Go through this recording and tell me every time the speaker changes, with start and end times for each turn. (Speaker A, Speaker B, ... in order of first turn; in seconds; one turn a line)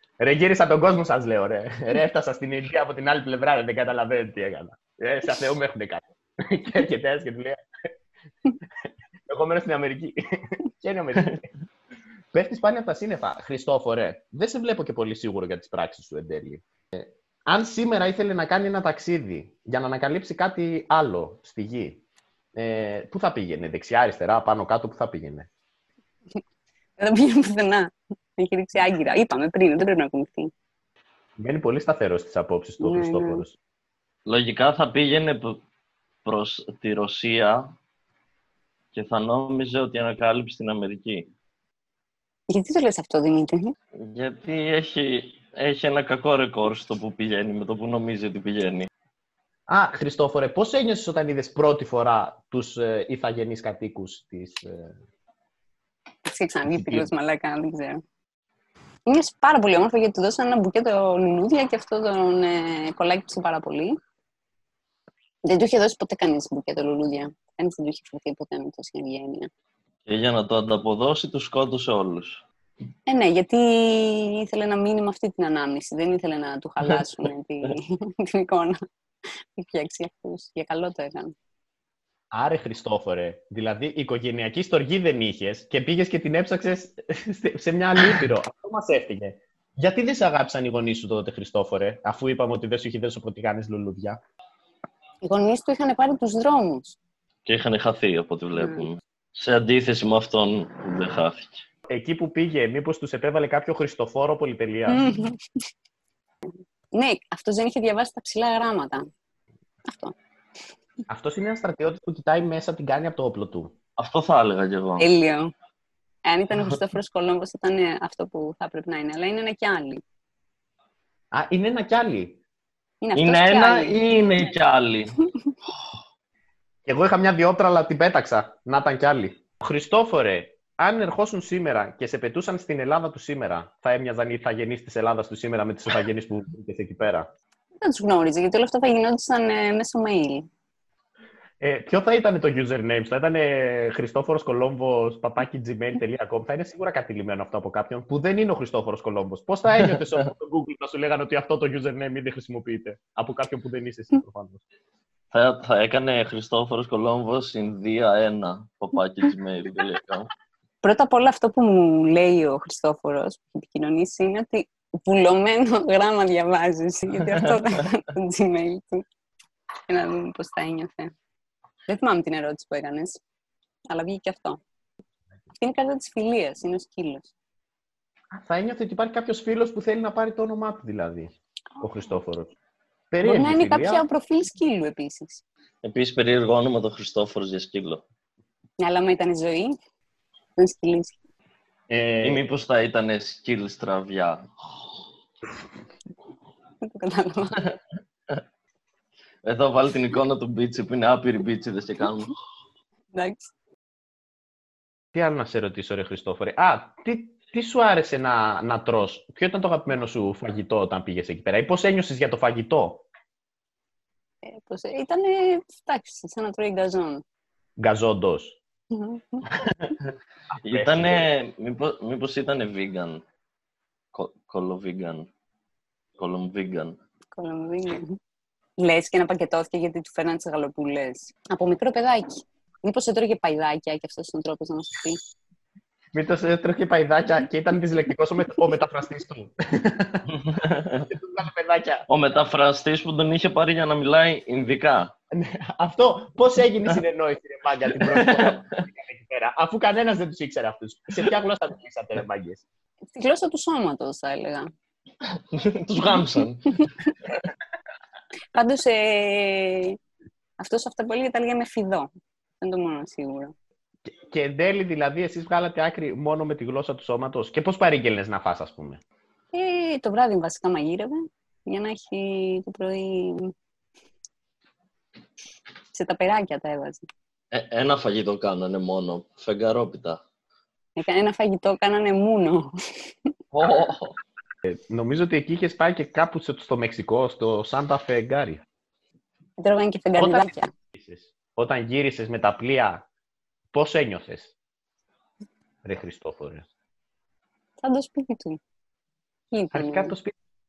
Speaker A: 0.2-7.6
Speaker A: 9.3-11.5
Speaker A: 12.3-22.0
Speaker A: 22.5-25.5
Speaker B: 27.0-30.5
Speaker A: 31.4-33.5
Speaker B: 32.8-33.4
Speaker C: 34.3-35.6
Speaker C: 36.2-37.7
Speaker C: 38.9-41.3
Speaker B: 42.5-43.7
Speaker C: 44.0-48.9
Speaker A: 49.7-55.0
Speaker B: 56.3-58.0
Speaker A: 56.7-57.1
Speaker B: 59.0-63.9
Speaker B: 65.4-69.5
Speaker C: 70.1-72.4
Speaker B: 73.0-78.7
Speaker B: 79.6-81.3
Speaker A: 82.3-94.2
Speaker B: 95.2-97.0
Speaker C: 97.5-101.6
Speaker B: 98.6-98.9
Speaker A: 101.9-105.0
Speaker B: 104.9-105.4
Speaker B: 106.9-109.0
Speaker B: 109.9-110.1
Speaker A: 111.1-113.7
Speaker C: 114.0-115.1
Speaker B: 115.0-115.5
Speaker B: 116.2-120.0
Speaker A: 121.3-122.4
Speaker B: 123.0-124.0
Speaker C: 123.1-125.2
Speaker A: 126.8-137.3
Speaker B: 137.8-140.5
Speaker A: 141.6-154.6
Speaker C: 149.8-150.3
Speaker C: 155.3-160.3
Speaker B: 160.8-169.0
Speaker B: 169.9-171.1
Speaker B: 171.9-173.2
Speaker B: 173.9-174.6
Speaker B: 175.6-177.3
Speaker A: 178.3-182.5
Speaker A: 183.1-184.0
Speaker B: 183.2-185.4
Speaker C: 185.8-188.0
Speaker B: 188.8-189.7
Speaker B: 190.6-191.1
Speaker A: 191.9-192.4
Speaker C: 192.2-194.5
Speaker B: 196.8-197.6
Speaker C: 199.4-202.3
Speaker B: 203.1-203.5
Speaker A: 205.1-213.1
Speaker B: 214.4-217.2
Speaker A: 217.8-218.6
Speaker B: 218.9-219.4
Speaker C: 219.8-220.1
Speaker A: 220.6-221.3
Speaker C: 220.6-223.2
Speaker C: 224.1-225.3
Speaker C: 226.2-227.0
Speaker B: 227.3-228.2
Speaker B: 228.8-232.3
Speaker B: 232.8-235.2
Speaker A: 236.1-240.3
Speaker C: 240.3-241.1
Speaker A: 241.1-242.1
Speaker C: 242.1-245.1
Speaker A: 245.3-252.6
Speaker C: 247.9-248.8
Speaker B: 253.1-254.7
Speaker C: 255.5-256.9
Speaker B: 256.0-256.9
Speaker B: 258.5-260.0
Speaker B: 260.6-262.1
Speaker B: 262.6-263.5
Speaker A: 264.1-269.0
Speaker B: 269.5-273.5
Speaker B: 275.9-277.1
Speaker C: 277.5-280.2
Speaker B: 281.0-283.3
Speaker C: 283.5-284.1
Speaker A: 284.6-288.6
Speaker B: 289.6-290.7
Speaker A: 290.2-293.1
Speaker A: 293.7-294.5
Speaker A: 295.8-296.6
Speaker B: 297.8-298.6
Speaker B: 299.5-300.1
Speaker A: 299.7-300.3